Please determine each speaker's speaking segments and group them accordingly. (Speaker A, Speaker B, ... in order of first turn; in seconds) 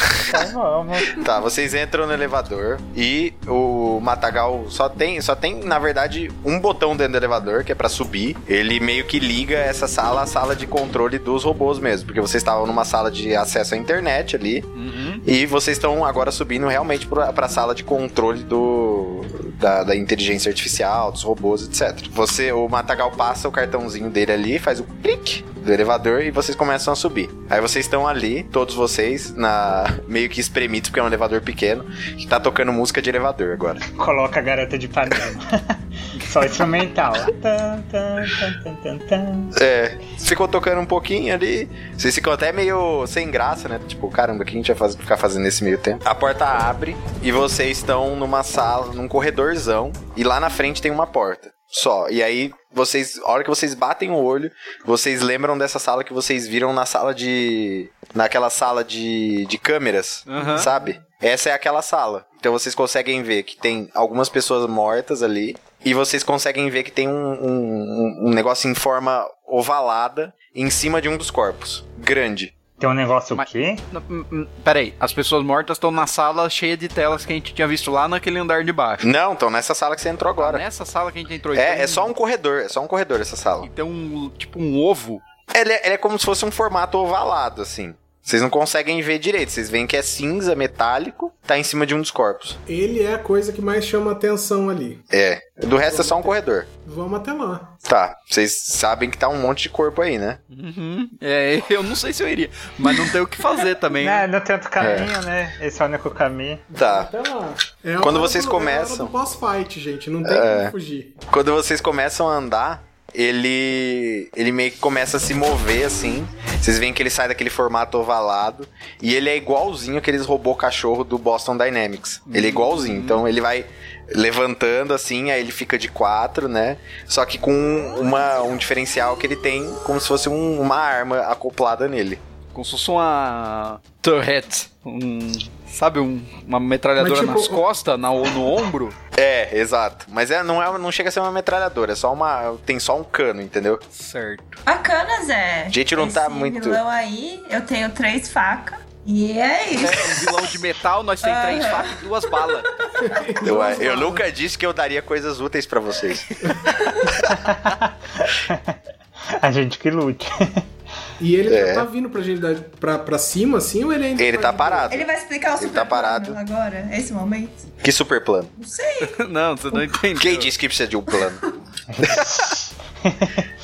Speaker A: 0.3-1.2, 33.9-39.5, 72.8-73.8, 104.0-106.6, 157.2-158.8, 159.3-160.6, 171.9-173.4
Speaker B: 1.1-14.7, 15.2-33.8, 39.5-72.5, 79.0-80.6, 81.5-83.7, 85.5-92.6, 95.1-96.7, 97.8-100.4, 104.8-105.1, 106.7-107.1, 108.0-109.1, 110.2-110.7, 111.3-132.2, 139.2-143.8, 145.7-146.8, 153.4-156.3, 161.5-161.9, 164.2-165.1, 165.6-166.4, 167.8-168.5, 170.2-171.4
Speaker C: 14.8-15.2, 60.3-60.7, 73.4-79.1, 80.4-82.1, 83.6-85.2, 100.5-104.3, 122.3-123.2, 132.5-138.9, 143.9-144.6, 149.8-152.7, 169.0-170.5
Speaker D: 92.7-95.0, 95.8-97.7, 106.7-111.2, 137.0-137.6, 153.0-154.2, 156.4-156.7, 161.2-164.9
Speaker E: 144.7-150.6, 151.2-152.9, 156.7-157.1, 164.9-167.7, 168.6-169.1, 171.2-171.5